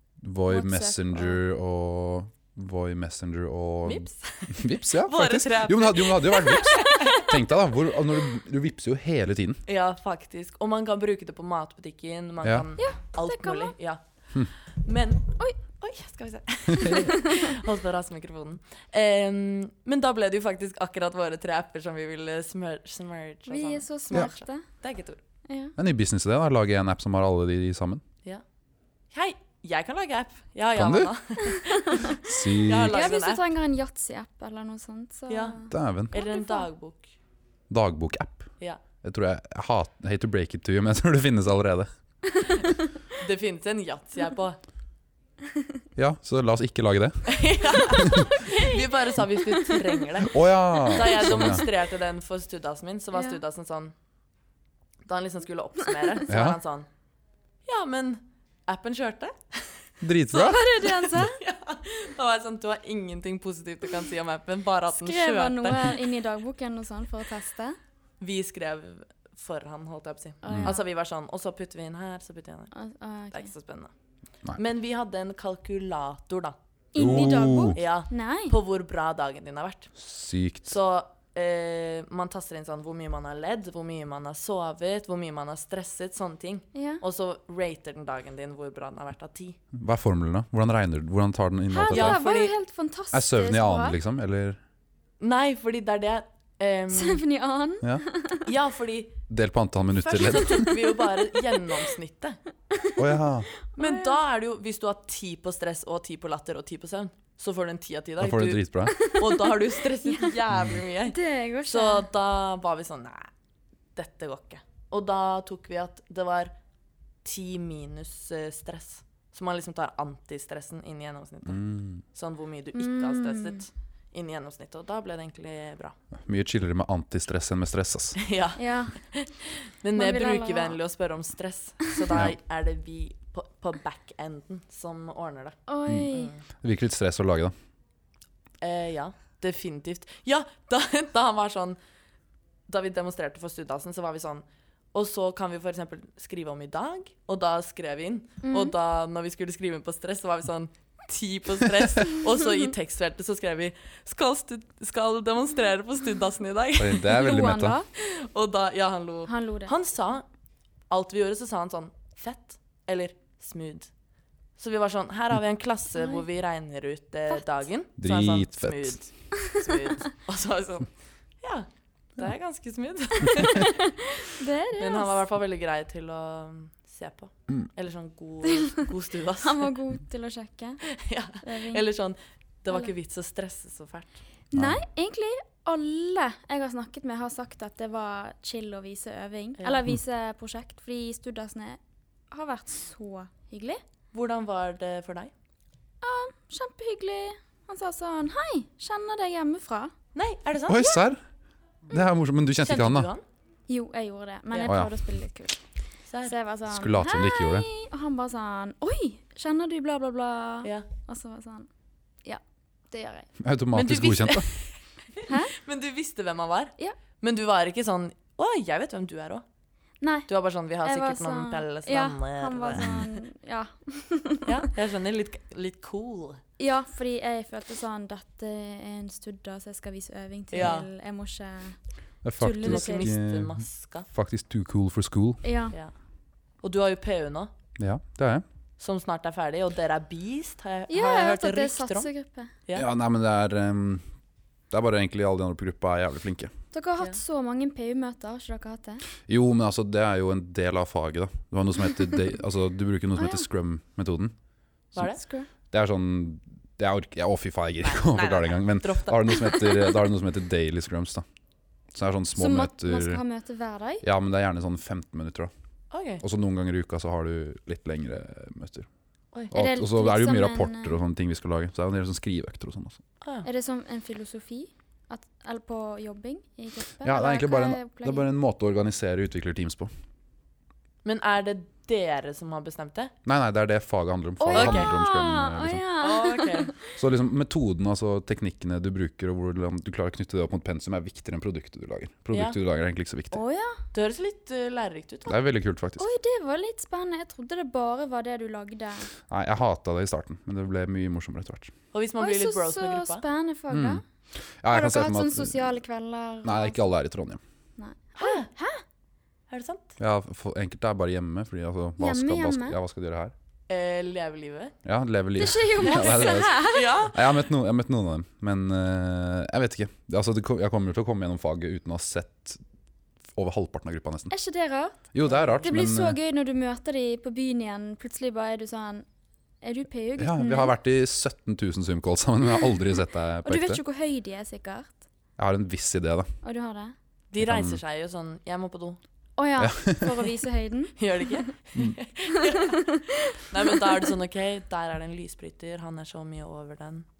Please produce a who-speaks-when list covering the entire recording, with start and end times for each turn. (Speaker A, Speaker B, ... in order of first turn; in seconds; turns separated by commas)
Speaker A: 0.2-9.6, Speaker B: 0.5-1.4, Speaker C: 3.9-7.3, Speaker B: 6.7-7.3, Speaker C: 9.7-14.0, Speaker B: 12.8-13.7, Speaker C: 14.8-25.2, Speaker B: 16.8-17.5, Speaker B: 23.5-24.6, Speaker B: 25.5-25.8, Speaker A: 25.8-28.0, Speaker C: 29.1-33.4, Speaker A: 30.8-31.1, Speaker B: 31.5-36.7, Speaker A: 32.2-33.0, Speaker C: 35.3-35.6, Speaker A: 35.7-36.1, Speaker C: 36.1-37.1, Speaker A: 37.7-38.5, Speaker A: 39.0-41.9, Speaker B: 42.4-42.7, Speaker C: 43.1-44.6, Speaker A: 46.0-48.3, Speaker C: 47.3-53.9, Speaker B: 48.0-48.9, Speaker B: 49.5-49.8, Speaker A: 50.3-51.6, Speaker B: 51.2-51.6, Speaker C: 55.1-56.9, Speaker A: 56.3-56.6, Speaker C: 57.6-59.7, Speaker A: 60.0-61.1, Speaker B: 60.3-61.4, Speaker C: 61.1-66.0, Speaker B: 64.9-67.8, Speaker C: 68.2-72.7, Speaker B: 70.4-70.8, Speaker B: 72.7-73.5, Speaker C: 73.3-73.9, Speaker C: 74.5-76.6, Speaker B: 76.9-78.5, Speaker A: 77.0-77.8, Speaker C: 77.8-80.0, Speaker A: 80.0-80.7, Speaker C: 80.7-89.6, Speaker B: 86.7-87.0, Speaker A: 89.7-92.2, Speaker B: 91.7-94.0, Speaker C: 91.9-92.5, Speaker A: 93.1-94.6, Speaker C: 95.2-97.2, Speaker B: 96.9-98.5, Speaker C: 98.5-99.2, Speaker A: 99.3-100.7, Speaker C: 99.9-102.4, Speaker B: 100.5-101.2, Speaker A: 103.0-103.5, Speaker B: 103.6-104.2, Speaker C: 103.8-113.3, Speaker A: 108.2-109.0, Speaker B: 108.9-110.3, Speaker B: 111.1-112.1, Speaker C: 114.0-116.5, Speaker C: 117.2-126.0, Speaker A: 121.5-122.0, Speaker B: 122.8-123.6, Speaker A: 126.3-128.2, Speaker C: 128.2-135.6, Speaker B: 128.6-129.0, Speaker B: 129.9-130.8, Speaker B: 135.7-136.3, Speaker C: 136.1-136.4, Speaker A: 136.6-137.5, Speaker C: 138.6-141.8, Speaker C: 142.7-157.1, Speaker B: 148.4-148.7, Speaker A: 156.8-157.8, Speaker B: 157.0-157.9, Speaker C: 157.9-160.2, Speaker B: 159.3-159.7, Speaker C: 160.9-163.9, Speaker C: 164.6-170.9, Speaker A: 168.0-169.0, Speaker C: 171.4-173.8, Speaker B: 173.3-175.2, Speaker C: 174.8-179.7, Speaker B: 178.5-178.8, Speaker B: 179.4-180.8, Speaker C: 180.9-184.1, Speaker B: 181.4-181.8, Speaker B: 184.5-191.8, Speaker A: 184.5-184.8, Speaker B: 192.3-193.8, Speaker C: 194.1-195.3, Speaker B: 196.0-199.9, Speaker C: 200.2-201.0, Speaker A: 200.7-201.2, Speaker A: 201.9-203.1, Speaker C: 202.6-203.2, Speaker B: 203.7-205.6, Speaker A: 204.7-204.9, Speaker C: 206.1-206.3, Speaker B: 206.2-211.7, Speaker A: 206.7-207.7, Speaker B: 212.2-213.3, Speaker A: 213.4-214.5, Speaker C: 213.7-219.4, Speaker B: 215.3-215.5, Speaker B: 220.0-220.3, Speaker C: 220.3-223.0, Speaker B: 220.8-224.7, Speaker A: 222.8-223.0, Speaker C: 224.5-226.4, Speaker B: 226.6-231.8, Speaker C: 230.5-230.9, Speaker A: 232.2-235.4, Speaker B: 232.4-233.1, Speaker C: 232.6-234.1, Speaker B: 235.4-235.8, Speaker C: 236.6-237.5, Speaker A: 237.8-238.4, Speaker C: 238.8-242.1, Speaker B: 240.9-242.5, Speaker A: 242.8-244.1, Speaker A: 244.7-246.5, Speaker B: 246.7-249.0, Speaker A: 249.3-254.3, Speaker B: 253.2-253.5, Speaker B: 255.0-255.5, Speaker A: 255.7-261.2, Speaker C: 257.8-259.9, Speaker A: 261.9-263.2, Speaker B: 262.4-264.0, Speaker A: 264.0-265.5, Speaker C: 265.9-266.2, Speaker A: 266.2-268.9, Speaker A: 269.5-273.0, Speaker B: 269.5-271.0, Speaker B: 273.4-278.3, Speaker A: 277.0-279.9, Speaker C: 281.0-283.1, Speaker A: 283.2-285.8, Speaker B: 284.4-286.7, Speaker C: 284.5-284.9, Speaker C: 286.0-286.8, Speaker A: 287.0-293.4, Speaker C: 292.3-292.6, Speaker B: 293.3-293.8, Speaker C: 293.9-295.4, Speaker A: 295.3-296.1, Speaker B: 296.0-299.1, Speaker A: 299.3-301.7, Speaker C: 301.9-303.2, Speaker B: 302.2-304.0, Speaker A: 303.7-305.7, Speaker B: 304.7-306.9, Speaker A: 306.4-307.4, Speaker B: 307.8-308.8, Speaker C: 308.2-308.5, Speaker C: 309.5-309.9, Speaker A: 310.0-313.3, Speaker B: 312.0-312.8, Speaker C: 313.7-314.8, Speaker A: 314.9-322.6, Speaker B: 315.4-317.0, Speaker C: 315.8-317.2, Speaker A: 323.4-324.3, Speaker B: 324.3-325.0, Speaker A: 325.1-326.2, Speaker C: 325.2-325.7, Speaker B: 325.6-329.1, Speaker B: 329.6-330.7, Speaker A: 330.2-333.8, Speaker B: 333.4-335.0, Speaker A: 335.4-336.3, Speaker B: 336.4-336.9, Speaker C: 337.3-339.0, Speaker A: 337.4-337.8, Speaker B: 339.4-341.5, Speaker A: 339.6-340.1, Speaker C: 341.0-347.1, Speaker B: 342.4-344.1